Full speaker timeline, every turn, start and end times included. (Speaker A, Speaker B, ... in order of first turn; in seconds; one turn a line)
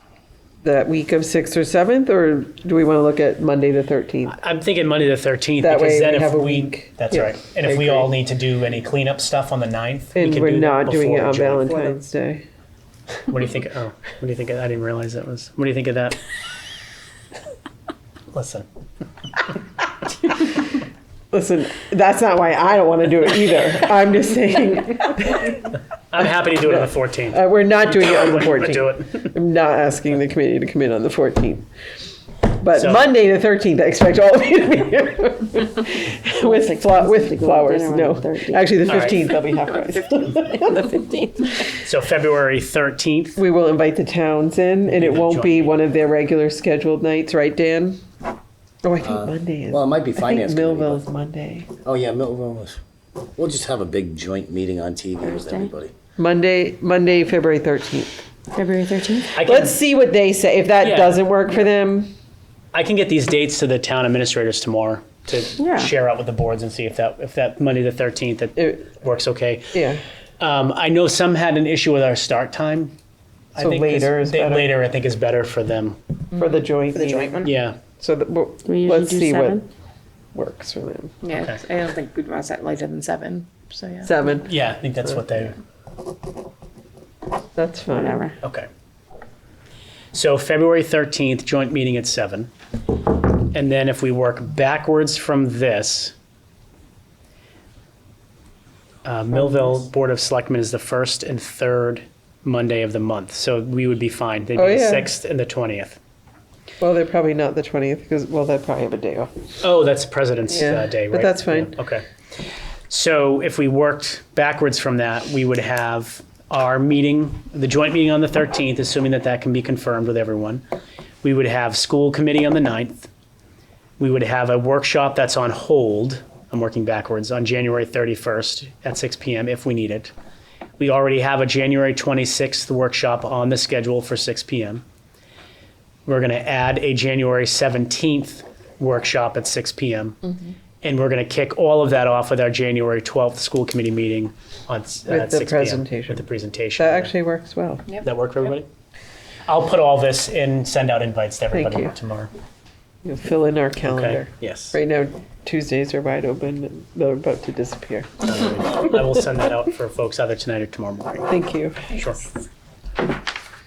Speaker A: 0.6-4.4
Speaker B: 4.3-11.8
Speaker A: 5.6-8.1
Speaker A: 10.2-12.4
Speaker B: 13.3-16.2
Speaker B: 18.3-18.7
Speaker A: 21.3-25.7
Speaker B: 26.1-29.3
Speaker A: 26.7-31.6
Speaker A: 32.5-40.9
Speaker B: 32.7-33.1
Speaker C: 36.4-39.0
Speaker B: 38.9-39.2
Speaker C: 40.7-41.6
Speaker B: 41.7-43.4
Speaker A: 43.4-48.0
Speaker B: 44.9-45.8
Speaker A: 48.8-51.7
Speaker D: 49.0-51.0
Speaker D: 51.8-52.8
Speaker D: 53.3-55.9
Speaker C: 55.2-55.7
Speaker A: 56.2-58.2
Speaker C: 58.5-59.4
Speaker B: 59.4-59.8
Speaker A: 59.4-62.1
Speaker B: 60.8-61.2
Speaker B: 62.7-69.7
Speaker C: 65.6-65.9
Speaker A: 68.6-68.9
Speaker A: 69.7-70.0
Speaker B: 70.4-72.9
Speaker B: 73.5-76.0
Speaker A: 73.6-74.7
Speaker E: 76.3-77.5
Speaker A: 76.4-77.5
Speaker B: 77.4-77.8
Speaker A: 78.0-79.6
Speaker C: 78.6-79.6
Speaker A: 80.3-81.1
Speaker E: 81.2-84.2
Speaker A: 84.0-84.5
Speaker B: 84.5-85.5
Speaker A: 87.6-88.3
Speaker C: 87.9-88.4
Speaker B: 88.4-88.7
Speaker B: 90.1-92.5
Speaker B: 93.4-96.1
Speaker B: 99.0-106.0
Speaker A: 104.6-105.1
Speaker A: 106.8-109.3
Speaker B: 109.6-112.0
Speaker A: 110.5-111.7
Speaker B: 112.9-120.6
Speaker B: 121.2-123.1
Speaker B: 124.0-130.1
Speaker B: 130.8-134.8
Speaker B: 136.1-140.2
Speaker B: 140.8-147.1
Speaker A: 145.1-146.3
Speaker A: 146.8-147.9
Speaker B: 148.0-148.7
Speaker B: 149.5-152.3
Speaker A: 151.5-151.9
Speaker A: 153.0-158.3
Speaker B: 153.9-154.8
Speaker B: 158.2-161.3
Speaker A: 161.3-161.9
Speaker B: 161.9-162.2